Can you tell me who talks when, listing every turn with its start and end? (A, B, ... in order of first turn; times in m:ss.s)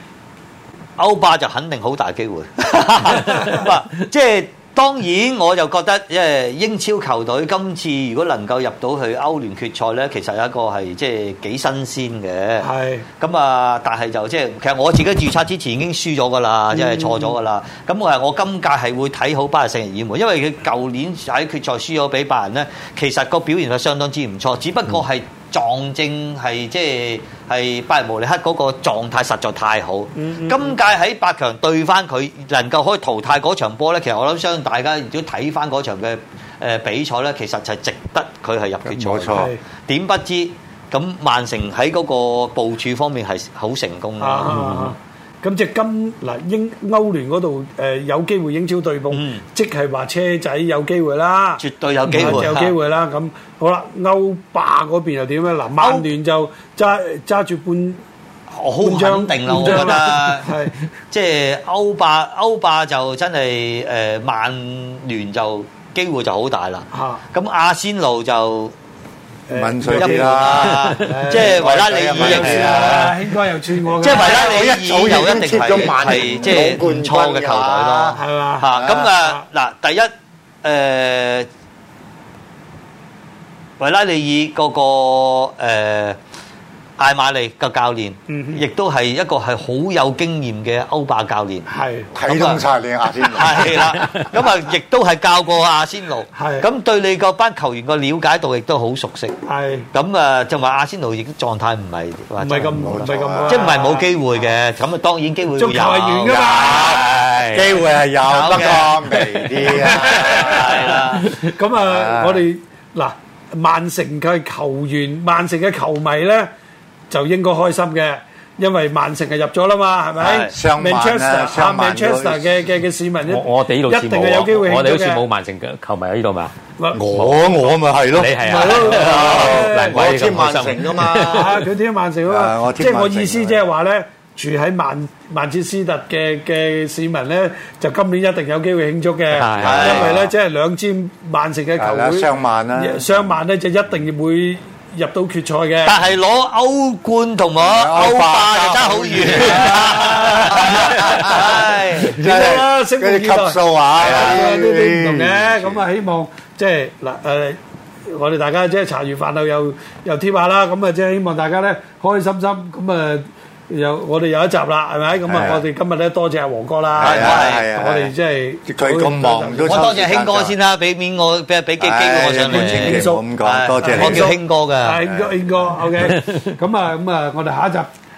0:01.0-0:44.6 A
0:12.6-0:13.0 B
0:16.7-0:17.4 B
0:30.2-0:30.8 B
0:38.8-0:39.5 C
0:39.3-0:39.6 B
0:44.2-0:58.0 B
0:44.5-0:44.8 D
0:49.1-0:49.4 A
0:51.6-0:52.8 A
0:52.1-0:52.4 D
0:55.8-0:56.1 A
0:58.5-1:00.5 A
0:58.8-1:00.7 B
0:59.6-1:00.0 D
1:01.1-1:08.7 A
1:06.9-1:07.2 B
1:09.5-1:14.6 B
1:09.5-1:13.2 C
1:09.9-1:13.1 A
1:14.0-1:20.1 A
1:14.0-1:19.1 C
1:15.6-1:16.7 B
1:18.1-1:19.4 B
1:20.6-1:21.5 A
1:23.8-1:26.2 A
1:27.0-1:31.7 A
1:28.3-1:28.6 B
1:31.7-1:32.1 B
1:32.1-1:34.0 C
1:32.2-1:32.6 A
1:33.2-1:39.4 A
1:36.3-1:36.7 B
1:39.4-1:39.9 B
1:39.9-1:43.0 A
1:42.4-1:44.1 B
1:42.8-1:43.9 C
1:43.5-1:47.7 A
1:45.6-1:47.1 B
1:46.5-1:50.9 C
1:48.2-1:49.1 A
1:49.8-1:51.4 A
1:49.8-1:56.5 B
1:51.8-1:52.4 C
1:57.1-2:05.2 B
2:00.2-2:00.5 A
2:00.2-2:02.6 C
2:03.3-2:06.5 D
2:06.8-2:07.0 B
2:06.9-2:11.6 C
2:07.1-2:07.4 D
2:08.1-2:11.6 D
2:08.4-2:10.0 B
2:11.2-2:26.0 B
2:12.2-2:13.6 C
2:19.3-2:20.3 D
2:19.6-2:20.2 A
2:21.8-2:23.2 C
2:25.8-2:32.2 A
2:27.6-2:35.8 C
2:31.2-2:31.5 B
2:32.0-2:49.9 B
2:34.1-2:34.3 A
2:45.2-2:45.6 C
2:46.9-2:48.1 C
2:47.0-2:47.6 A
2:48.6-2:50.6 C
2:49.6-2:55.0 A
2:51.8-2:54.4 C
2:52.4-2:53.3 B
2:53.8-2:57.9 B
2:55.1-2:55.7 C
2:56.0-2:56.5 D